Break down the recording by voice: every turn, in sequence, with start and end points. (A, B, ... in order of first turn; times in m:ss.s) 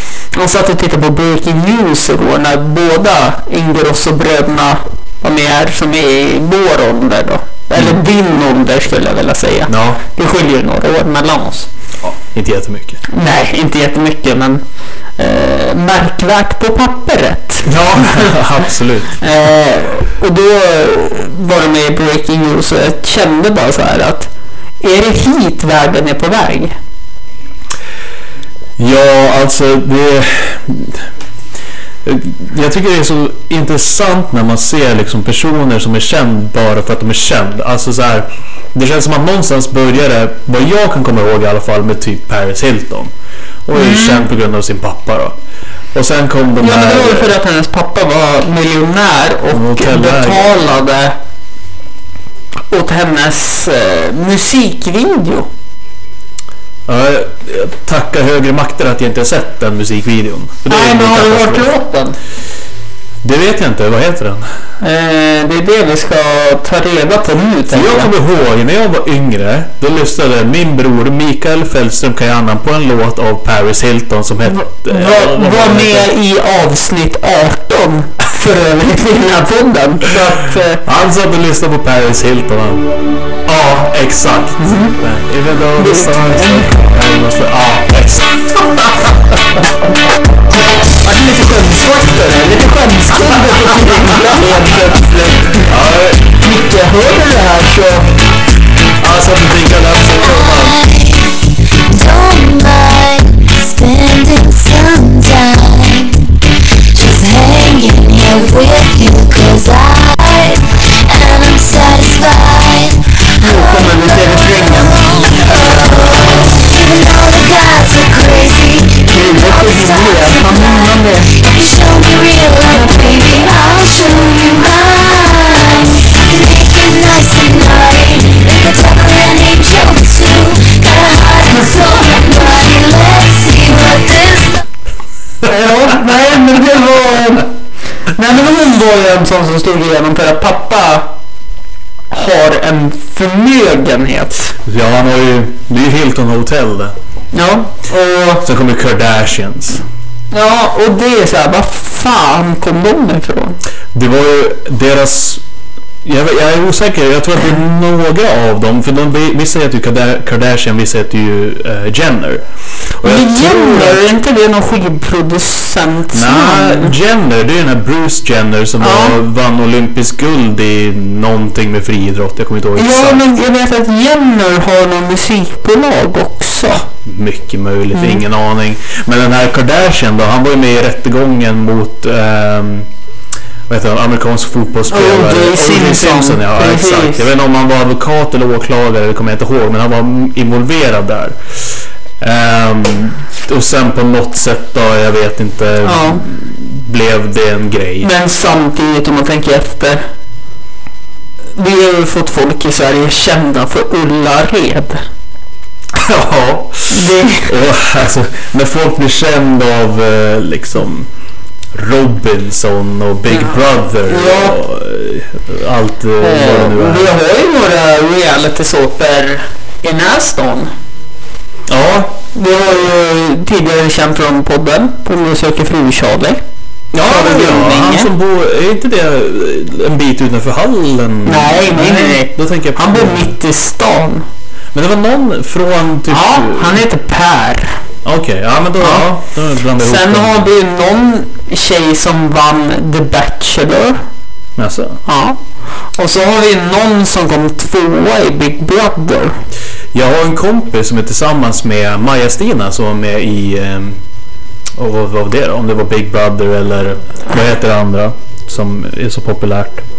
0:00.3-0:11.7 A
0:09.7-0:10.0 B
0:12.0-0:13.0 B
0:13.1-0:14.6 A
0:15.2-0:18.3 A
0:17.6-0:19.2 B
0:19.2-0:24.3 A
0:24.8-0:26.7 A
0:28.8-0:31.1 B
0:32.0-0:43.1 B
0:43.7-0:45.4 B
0:43.7-0:44.3 A
0:45.9-0:47.4 B
0:46.6-0:51.2 A
0:49.5-0:50.6 B
0:52.7-0:55.5 A
0:56.9-1:01.7 B
1:00.7-1:02.2 A
1:03.2-1:04.5 B
1:04.8-1:08.1 A
1:07.7-1:16.1 B
1:14.5-1:20.8 A
1:20.8-1:22.9 B
1:23.4-1:29.6 B
1:24.6-1:25.0 A
1:25.8-1:26.7 A
1:30.8-1:35.7 A
1:35.6-1:36.4 B
1:36.4-1:38.2 A
1:39.0-1:40.8 B
1:40.2-2:14.6 C
1:53.4-1:55.4 A
1:59.1-2:01.3 A
2:02.7-2:03.2 A
2:15.4-2:17.5 A
2:18.1-2:21.1 A
2:22.1-2:24.5 A
2:24.7-2:27.0 B
2:27.3-2:28.4 A
2:28.4-2:29.8 B
2:30.3-2:33.6 A
2:33.9-2:35.4 B
2:36.0-2:42.5 B
2:43.0-2:44.0 B
2:43.0-2:47.0 A
2:46.1-2:53.2 B
2:48.8-2:49.2 A
2:52.8-2:56.9 A
2:56.9-3:02.9 B
2:57.9-2:58.2 A
3:03.7-3:18.1 B
3:04.9-3:07.3 A
3:15.8-3:16.2 A
3:18.0-3:20.0 A
3:21.6-3:25.0 A
3:25.9-3:31.1 B
3:26.9-3:27.5 A
3:31.7-3:37.1 B
3:33.3-3:34.6 A
3:36.2-3:40.7 A
3:41.7-3:42.2 B
3:42.3-3:46.4 A
3:46.9-3:53.3 B
3:47.0-3:48.1 A
3:51.2-3:54.3 A
3:54.7-3:56.8 B
3:56.1-3:57.8 A
3:58.0-4:00.5 B
3:58.8-3:59.1 A
3:59.8-4:04.0 A
4:04.6-4:05.0 B
4:05.1-4:05.4 A
4:06.0-4:09.4 A
4:09.9-4:14.0 B
4:14.8-4:19.8 B